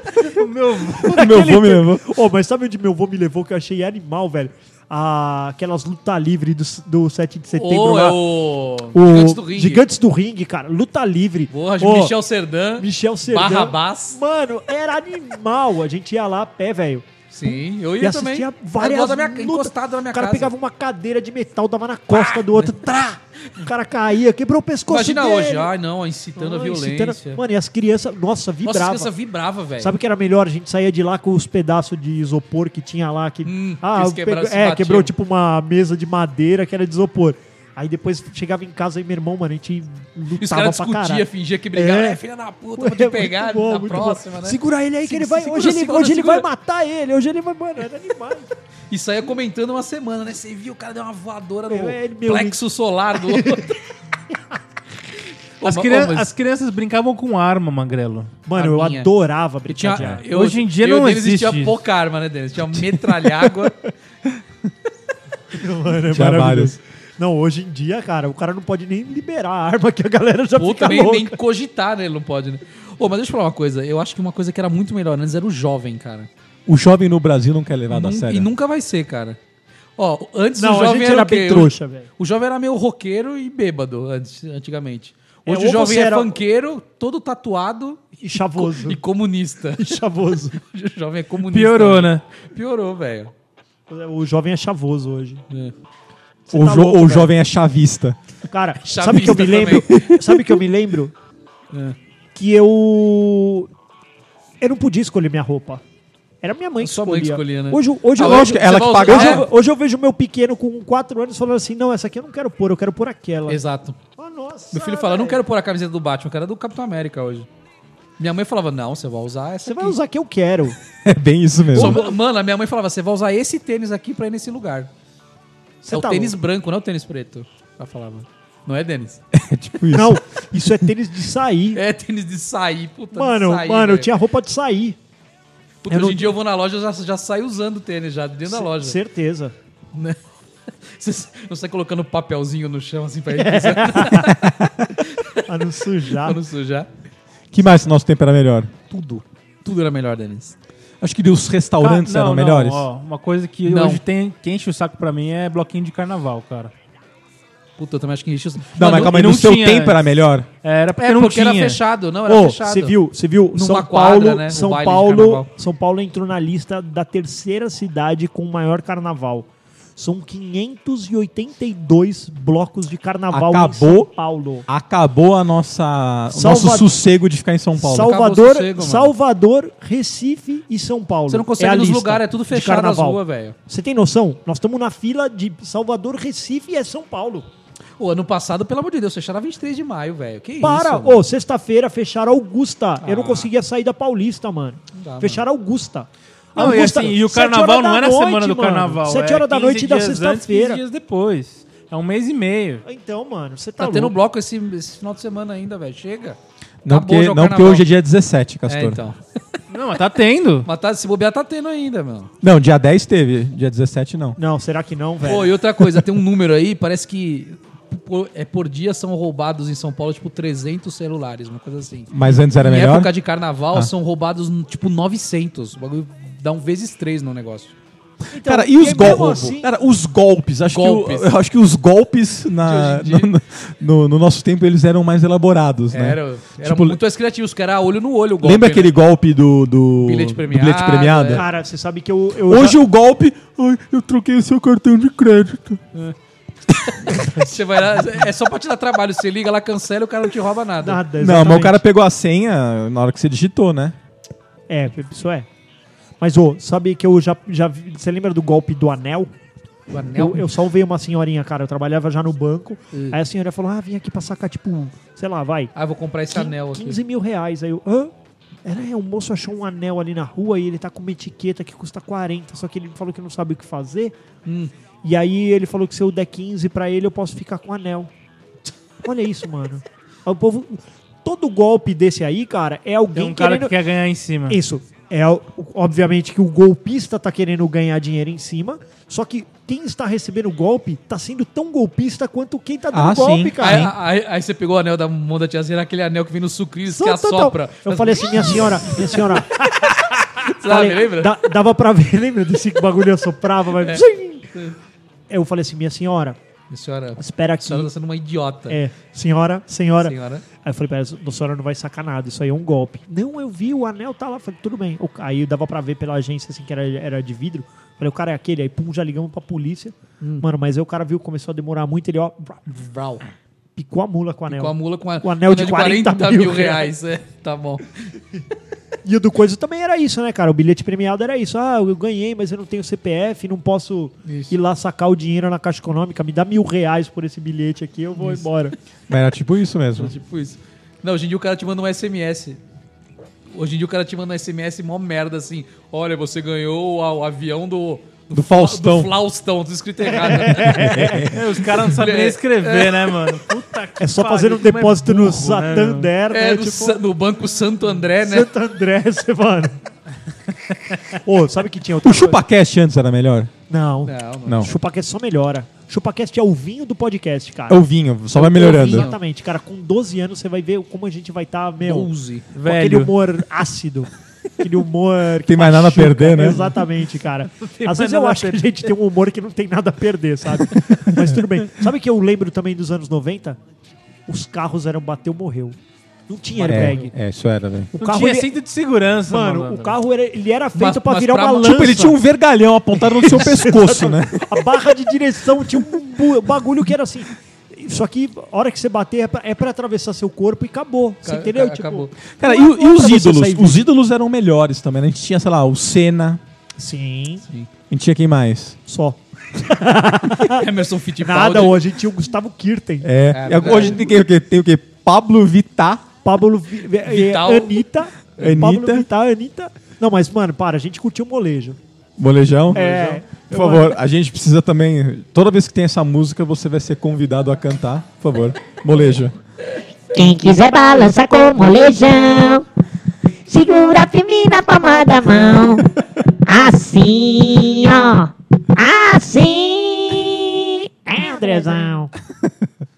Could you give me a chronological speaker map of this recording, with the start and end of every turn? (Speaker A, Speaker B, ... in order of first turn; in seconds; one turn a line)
Speaker A: 0.2-1.4
Speaker B: 1.0-8.2
Speaker C: 1.1-2.0
Speaker D: 7.5-9.8
Speaker B: 8.9-12.2
Speaker D: 11.5-14.2
Speaker B: 12.8-17.1
Speaker D: 17.3-20.5
Speaker B: 18.0-25.7
Speaker D: 22.1-23.6
Speaker D: 24.9-27.4
Speaker B: 26.4-29.1
Speaker D: 28.6-29.9
Speaker B: 29.8-42.2
Speaker D: 33.5-35.1
Speaker D: 40.4-46.5
Speaker B: 42.8-48.5
Speaker D: 48.9-53.8
Speaker B: 51.7-52.6
Speaker B: 53.2-53.7
Speaker D: 55.6-56.3
Speaker A: 55.6-58.4
Speaker B: 58.5-60.2
Speaker D: 58.5-59.1
Speaker D: 59.7-63.9
Speaker A: 60.3-61.8
Speaker B: 65.5-71.3
Speaker C: 66.1-66.8
Speaker D: 70.6-76.3
Speaker C: 76.7-78.5
Speaker D: 77.9-79.4
Speaker D: 80.0-93.3
Speaker B: 80.6-82.1
Speaker B: 85.5-86.3
Speaker B: 88.2-89.0
Speaker B: 89.8-90.6
Speaker A: 91.5-92.2
Speaker B: 93.9-95.4
Speaker B: 96.5-97.3
Speaker C: 96.5-98.2
Speaker B: 98.5-101.1
Speaker D: 98.8-99.9
Speaker C: 99.9-100.6
Speaker B: 102.3-103.7
Speaker B: 104.6-105.8
Speaker B: 106.4-113.6
Speaker D: 106.8-109.5
Speaker C: 108.2-109.5
Speaker D: 113.5-114.0
Speaker B: 114.2-115.4
Speaker D: 114.7-117.5
Speaker D: 118.2-120.0
Speaker B: 119.7-120.8
Speaker C: 121.0-122.0
Speaker D: 121.7-124.9
Speaker B: 121.8-122.2
Speaker B: 125.8-126.4
Speaker D: 125.9-129.2
Speaker C: 129.3-130.2
Speaker B: 129.9-131.8
Speaker D: 131.8-134.1
Speaker B: 133.1-135.0
Speaker D: 135.8-139.0
Speaker B: 135.9-136.3
Speaker B: 138.5-139.5
Speaker D: 140.9-144.4
Speaker B: 143.4-144.3
Speaker C: 144.3-144.9
Speaker D: 145.1-145.4
Speaker B: 145.4-146.4
Speaker D: 146.1-146.9
Speaker C: 147.5-148.7
Speaker D: 148.9-150.6
Speaker C: 151.0-152.9
Speaker A: 151.8-156.7
Speaker D: 153.7-154.0
Speaker D: 157.8-159.2
Speaker C: 158.7-160.5
Speaker A: 158.8-160.0
Speaker A: 160.6-161.8
Speaker D: 161.0-163.0
Speaker B: 162.3-174.7
Speaker D: 163.5-165.5
Speaker C: 173.3-174.1
Speaker C: 174.7-178.1
Speaker B: 176.3-176.9
Speaker B: 177.8-187.5
Speaker D: 177.9-179.1
Speaker D: 181.3-183.6
Speaker D: 188.0-191.2
Speaker B: 190.6-200.8
Speaker D: 193.0-193.5
Speaker D: 194.9-195.4
Speaker A: 196.6-202.8
Speaker B: 202.8-204.1
Speaker D: 203.8-207.9
Speaker C: 206.8-209.0
Speaker D: 208.7-209.2
Speaker A: 209.7-210.7
Speaker D: 210.7-212.3
Speaker C: 212.4-214.4
Speaker B: 214.4-215.6
Speaker D: 215.2-227.7
Speaker C: 222.1-223.1
Speaker B: 228.3-229.7
Speaker C: 228.3-237.0
Speaker D: 230.7-231.3
Speaker D: 232.6-233.3
Speaker D: 235.9-238.9
Speaker C: 238.4-241.4
Speaker D: 240.0-241.5
Speaker B: 241.3-242.8
Speaker C: 242.5-245.8
Speaker C: 246.7-247.0
Speaker D: 247.0-251.0
Speaker B: 250.8-251.8
Speaker C: 251.2-254.0
Speaker B: 254.7-255.5
Speaker B: 256.2-259.3
Speaker D: 259.9-260.5
Speaker B: 260.1-265.7
Speaker D: 265.8-267.0
Speaker B: 266.3-268.1
Speaker B: 268.6-274.1
Speaker D: 274.4-274.7
Speaker B: 275.0-278.1
Speaker B: 279.0-283.8
Speaker A: 283.2-284.6
Speaker B: 284.5-293.9
Speaker C: 292.9-293.9
Speaker D: 293.6-301.4
Speaker B: 296.9-304.5
Speaker D: 303.8-304.8
Speaker B: 305.3-306.4
Speaker D: 306.7-308.8
Speaker B: 307.2-307.9
Speaker B: 308.7-322.6
Speaker D: 310.0-310.4
Speaker D: 322.7-323.2
Speaker B: 323.8-326.9
Speaker D: 324.5-328.0
Speaker B: 329.0-338.8
Speaker D: 334.2-334.6
Speaker D: 338.2-338.4
Speaker C: 339.1-340.1
Speaker D: 340.0-342.6
Speaker D: 343.5-351.0
Speaker C: 348.3-349.1
Speaker B: 350.2-351.3
Speaker C: 350.7-351.4
Speaker A: 351.3-356.1
Speaker D: 351.6-353.4
Speaker B: 354.0-357.0
Speaker D: 356.3-358.5
Speaker B: 358.2-359.8
Speaker B: 361.1-362.4
Speaker C: 362.0-363.5
Speaker B: 363.7-367.8
Speaker D: 364.1-364.7
Speaker C: 364.4-364.7
Speaker C: 367.7-369.1
Speaker B: 368.3-372.1
Speaker D: 368.4-369.2
Speaker D: 371.8-372.5
Speaker A: 372.5-373.1
Speaker B: 372.6-383.6
Speaker C: 375.4-376.6
Speaker A: 377.5-378.7
Speaker B: 384.3-385.8
Speaker B: 386.3-387.1
Speaker D: 386.6-387.1
Speaker C: 386.7-388.0
Speaker A: 388.0-390.0
Speaker B: 388.0-388.5
Speaker B: 389.3-392.2
Speaker D: 390.8-392.0
Speaker C: 391.6-394.7
Speaker B: 393.2-403.9
Speaker D: 401.2-402.1
Speaker C: 402.4-406.4
Speaker B: 406.8-407.4
Speaker C: 407.9-408.8
Speaker B: 408.9-410.7
Speaker D: 410.4-411.8
Speaker B: 411.2-413.1
Speaker C: 413.0-416.1
Speaker D: 413.3-414.1
Speaker B: 413.6-413.9
Speaker B: 416.2-421.8
Speaker D: 417.1-417.8
Speaker C: 418.4-419.1
Speaker C: 422.2-422.9
Speaker B: 422.7-424.0
Speaker C: 423.4-429.4
Speaker E: 430.1-432.6
Speaker E: 433.5-441.9
Speaker B: 441.1-442.1